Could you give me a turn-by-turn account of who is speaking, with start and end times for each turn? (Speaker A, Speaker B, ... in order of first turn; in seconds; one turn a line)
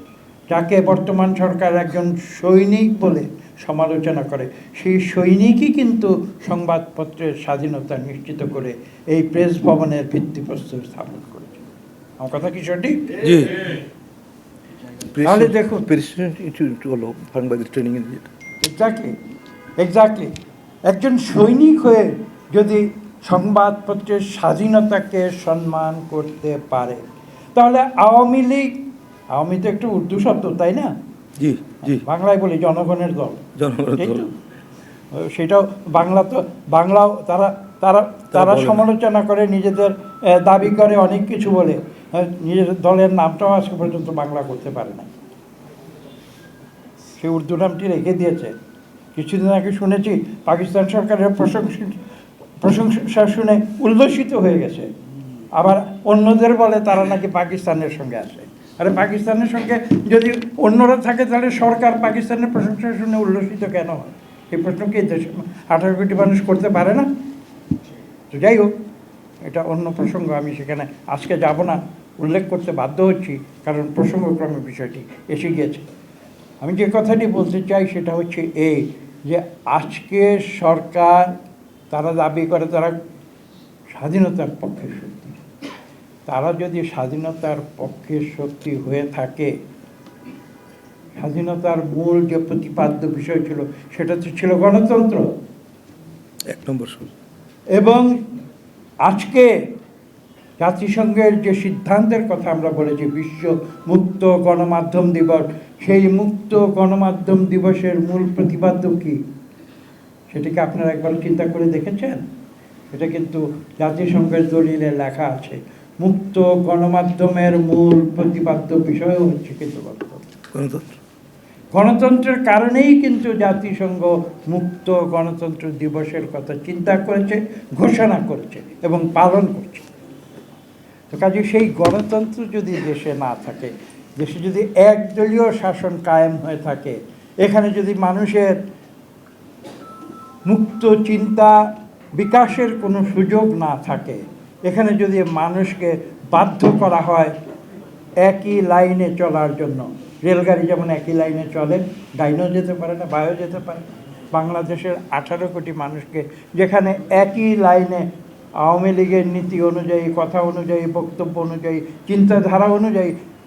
Speaker A: 0.5-11.7
Speaker A: 12.2-13.1
Speaker B: 13.2-13.8
Speaker B: 15.1-18.3
Speaker A: 15.2-15.9
Speaker A: 18.6-19.1
Speaker A: 19.8-20.3
Speaker A: 20.9-27.0
Speaker A: 27.5-28.7
Speaker A: 29.3-30.9
Speaker B: 31.4-32.0
Speaker A: 31.8-33.5
Speaker B: 33.6-34.2
Speaker A: 34.0-34.3
Speaker A: 35.1-45.1
Speaker B: 38.3-38.8
Speaker A: 47.2-48.5
Speaker A: 49.1-52.0
Speaker A: 52.6-54.9
Speaker A: 55.5-67.1
Speaker A: 68.3-68.7
Speaker A: 69.4-75.8
Speaker A: 76.6-81.3
Speaker A: 81.9-83.0
Speaker A: 83.9-85.4
Speaker A: 86.3-89.5
Speaker A: 91.2-95.2
Speaker B: 96.5-97.1
Speaker A: 97.7-98.1
Speaker A: 99.0-99.5
Speaker A: 100.6-109.2
Speaker A: 110.3-112.2
Speaker A: 112.9-120.2
Speaker B: 120.5-120.9
Speaker A: 121.7-129.9
Speaker A: 131.1-138.6
Speaker A: 140.4-147.3
Speaker A: 148.2-158.1
Speaker A: 158.6-163.1